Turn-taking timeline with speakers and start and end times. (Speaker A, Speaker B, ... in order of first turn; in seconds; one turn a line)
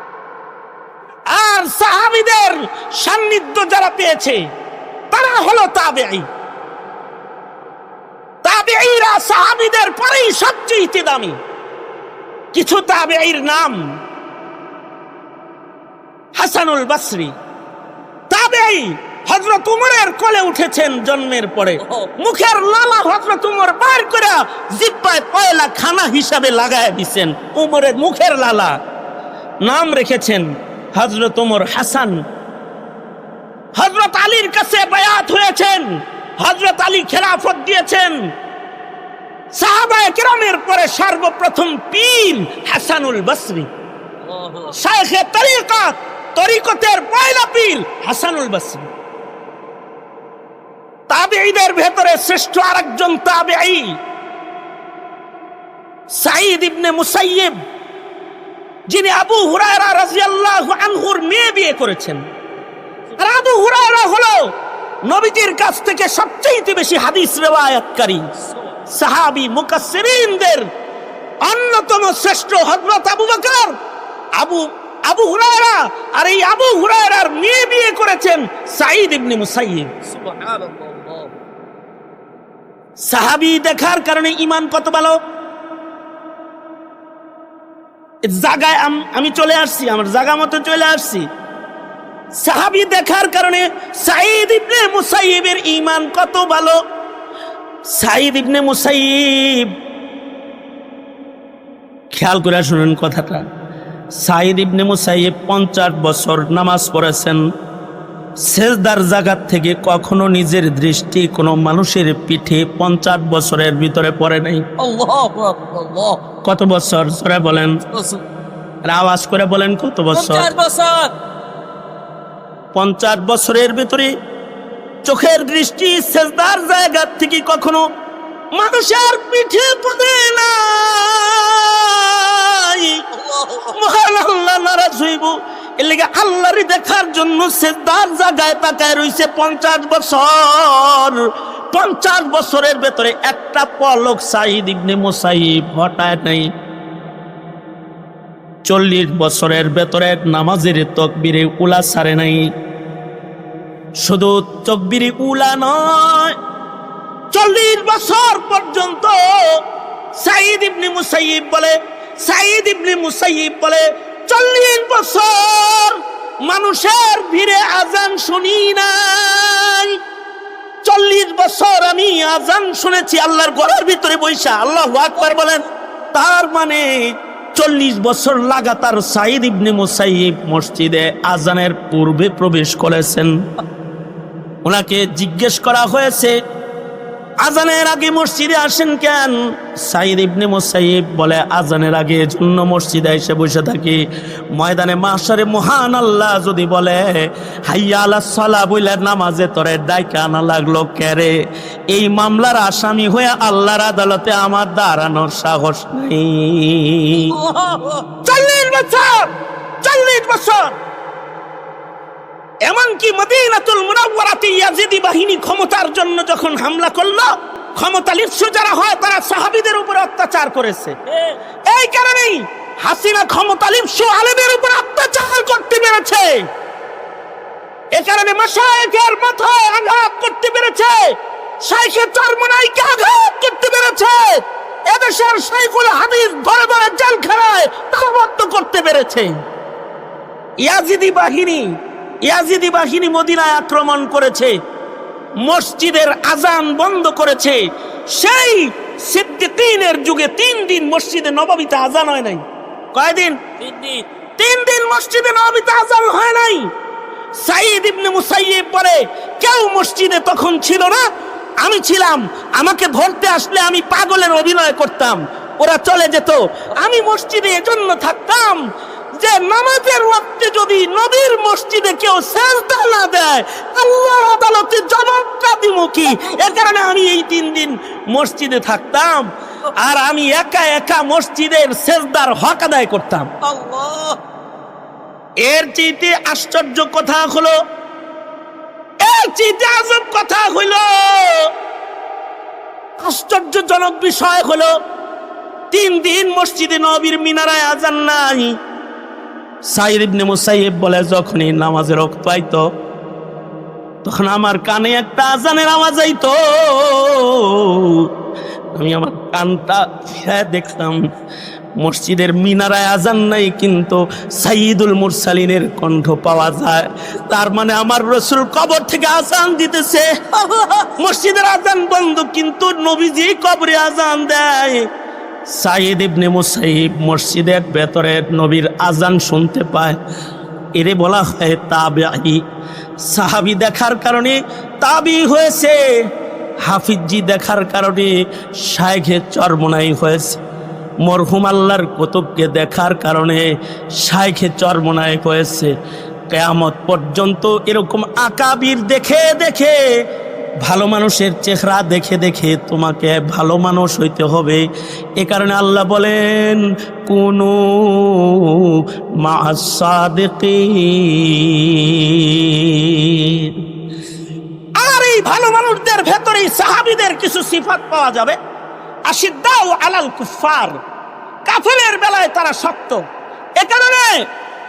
Speaker A: 1.3-4.4
Speaker A: 5.1-6.3
Speaker A: 8.4-11.4
Speaker A: 12.5-13.8
Speaker A: 16.4-17.4
Speaker A: 18.3-28.8
Speaker A: 29.6-32.2
Speaker A: 33.8-38.2
Speaker A: 39.5-43.7
Speaker B: 44.2-44.7
Speaker A: 44.7-48.9
Speaker A: 51.1-54.0
Speaker A: 56.1-57.5
Speaker A: 58.9-62.2
Speaker A: 63.2-64.5
Speaker A: 65.0-68.3
Speaker A: 68.9-70.7
Speaker A: 71.4-73.8
Speaker A: 74.3-79.9
Speaker B: 80.1-81.4
Speaker A: 83.0-85.2
Speaker A: 88.2-91.3
Speaker A: 92.4-96.8
Speaker A: 97.9-99.7
Speaker A: 102.1-103.5
Speaker A: 104.2-107.4
Speaker A: 108.5-114.7
Speaker B: 114.8-116.2
Speaker A: 116.4-117.8
Speaker B: 117.9-118.2
Speaker A: 118.9-120.5
Speaker B: 120.1-121.1
Speaker A: 122.8-124.1
Speaker A: 125.0-127.8
Speaker A: 128.6-133.0
Speaker B: 133.1-133.8
Speaker A: 133.6-146.5
Speaker A: 148.7-152.4
Speaker A: 154.0-156.4
Speaker A: 157.3-159.6
Speaker A: 160.2-170.0
Speaker A: 170.8-183.3
Speaker A: 184.7-186.4
Speaker A: 187.4-194.0
Speaker A: 194.5-201.4
Speaker A: 201.9-207.4
Speaker B: 207.3-208.1
Speaker A: 208.2-210.8
Speaker A: 212.7-221.0
Speaker A: 221.7-226.5
Speaker A: 227.9-239.4
Speaker A: 240.6-244.6
Speaker A: 245.4-256.7
Speaker B: 253.6-254.0
Speaker A: 257.3-261.1
Speaker A: 261.6-268.7
Speaker A: 269.2-283.3
Speaker B: 283.4-284.2
Speaker A: 285.4-287.6
Speaker A: 289.0-291.5
Speaker A: 293.0-294.7
Speaker A: 295.7-298.6
Speaker A: 299.7-302.6
Speaker A: 304.0-308.1
Speaker A: 308.8-311.0
Speaker A: 311.8-320.1
Speaker B: 320.5-320.7
Speaker A: 320.7-324.9
Speaker A: 325.5-330.0
Speaker A: 330.8-332.4
Speaker A: 333.0-335.8
Speaker A: 336.6-340.4
Speaker A: 341.0-345.7
Speaker A: 346.3-349.8
Speaker A: 350.6-354.6
Speaker A: 355.2-363.6
Speaker A: 364.8-368.4
Speaker A: 369.1-370.8
Speaker A: 371.5-373.1
Speaker A: 373.6-374.3